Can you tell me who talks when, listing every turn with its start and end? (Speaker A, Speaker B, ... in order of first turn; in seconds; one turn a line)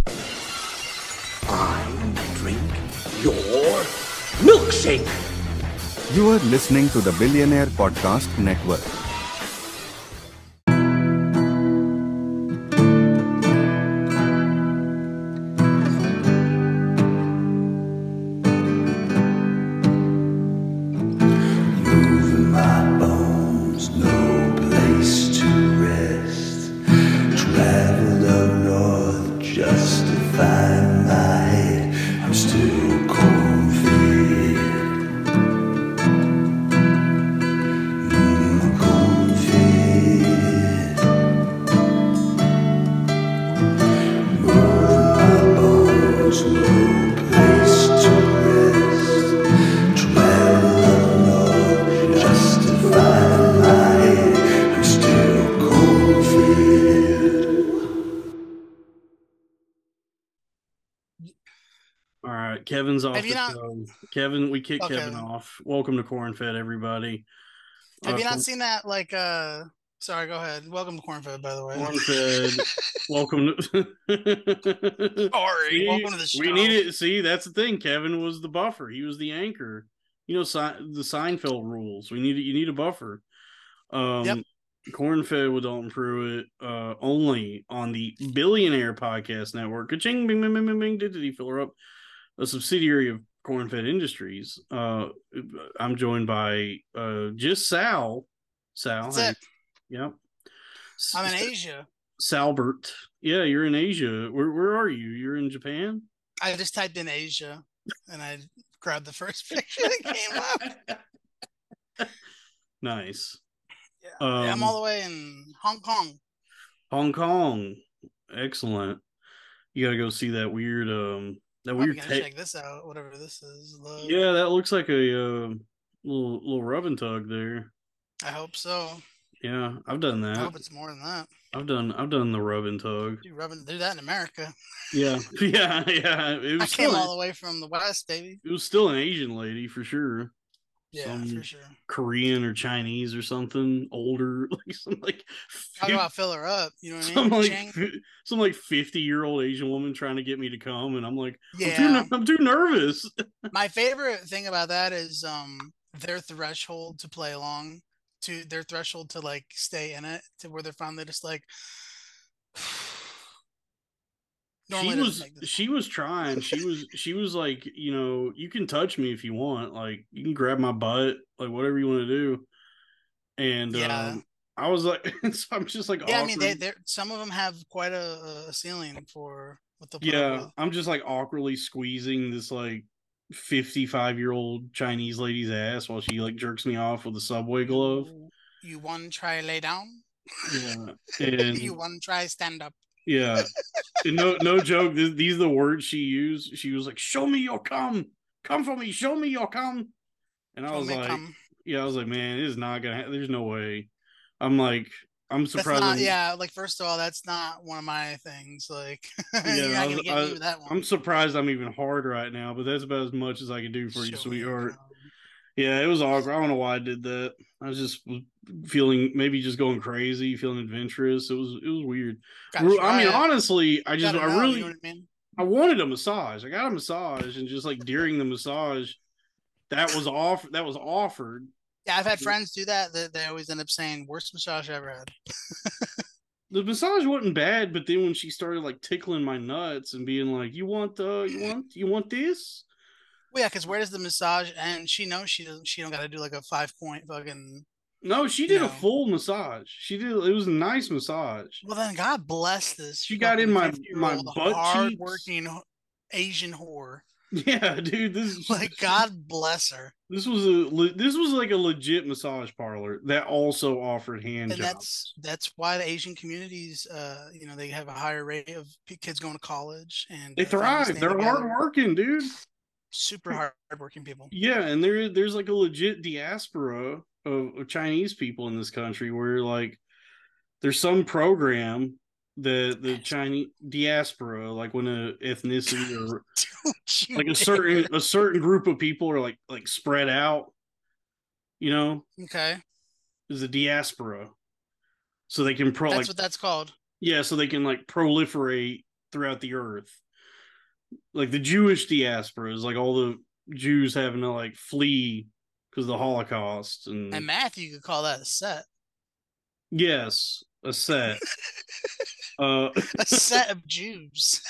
Speaker A: 1.5-5.2
Speaker B: 6.1-8.9
Speaker C: 21.7-26.7
Speaker C: 27.3-35.0
Speaker C: 38.0-41.0
Speaker C: 44.3-49.4
Speaker C: 49.9-57.6
Speaker D: 62.2-67.2
Speaker E: 63.1-63.6
Speaker E: 64.8-65.2
Speaker D: 68.0-68.4
Speaker E: 68.0-71.9
Speaker D: 71.7-83.2
Speaker E: 72.6-73.0
Speaker E: 75.3-76.8
Speaker D: 83.9-91.7
Speaker D: 92.4-99.4
Speaker E: 99.1-99.4
Speaker D: 99.9-100.2
Speaker D: 101.0-101.5
Speaker E: 101.1-101.8
Speaker D: 102.2-106.0
Speaker E: 106.4-110.7
Speaker D: 109.8-111.0
Speaker D: 112.8-113.4
Speaker E: 114.0-116.2
Speaker D: 114.2-114.7
Speaker D: 116.9-119.0
Speaker D: 119.7-122.3
Speaker E: 121.8-124.2
Speaker D: 124.0-127.7
Speaker E: 128.2-129.0
Speaker D: 129.4-130.5
Speaker E: 130.3-131.3
Speaker D: 131.5-133.2
Speaker E: 133.2-134.5
Speaker D: 134.9-137.1
Speaker E: 136.6-138.4
Speaker D: 138.4-140.3
Speaker E: 140.9-141.8
Speaker D: 141.0-146.0
Speaker E: 145.8-147.8
Speaker D: 147.0-153.1
Speaker E: 151.5-152.1
Speaker E: 153.5-161.5
Speaker E: 162.6-163.1
Speaker E: 164.7-165.5
Speaker D: 164.7-172.5
Speaker D: 173.4-176.6
Speaker E: 173.7-174.2
Speaker E: 176.0-180.5
Speaker D: 180.0-188.1
Speaker E: 187.7-190.0
Speaker D: 190.5-191.8
Speaker E: 191.4-192.8
Speaker D: 193.1-193.5
Speaker D: 194.0-199.9
Speaker D: 200.5-203.9
Speaker E: 200.7-201.3
Speaker D: 204.4-206.1
Speaker E: 205.6-210.8
Speaker D: 209.4-214.8
Speaker E: 213.9-215.1
Speaker D: 215.6-224.7
Speaker E: 222.5-223.3
Speaker E: 224.0-225.1
Speaker D: 225.4-229.0
Speaker D: 229.7-231.5
Speaker E: 231.8-235.1
Speaker E: 235.6-235.9
Speaker D: 236.5-242.6
Speaker E: 243.3-247.7
Speaker D: 248.0-251.6
Speaker E: 248.5-248.8
Speaker E: 251.6-257.0
Speaker D: 253.1-255.3
Speaker D: 257.3-259.0
Speaker E: 258.5-259.9
Speaker D: 260.1-265.1
Speaker E: 264.5-271.6
Speaker D: 270.4-272.3
Speaker E: 272.9-274.3
Speaker D: 274.3-279.8
Speaker D: 280.6-286.2
Speaker E: 285.7-287.9
Speaker D: 287.1-290.5
Speaker D: 291.6-292.1
Speaker E: 292.2-292.6
Speaker D: 293.3-294.3
Speaker D: 295.3-296.1
Speaker E: 295.9-296.7
Speaker D: 297.0-300.0
Speaker D: 301.1-307.3
Speaker E: 307.1-308.6
Speaker D: 309.7-311.2
Speaker D: 312.4-313.4
Speaker E: 312.9-314.4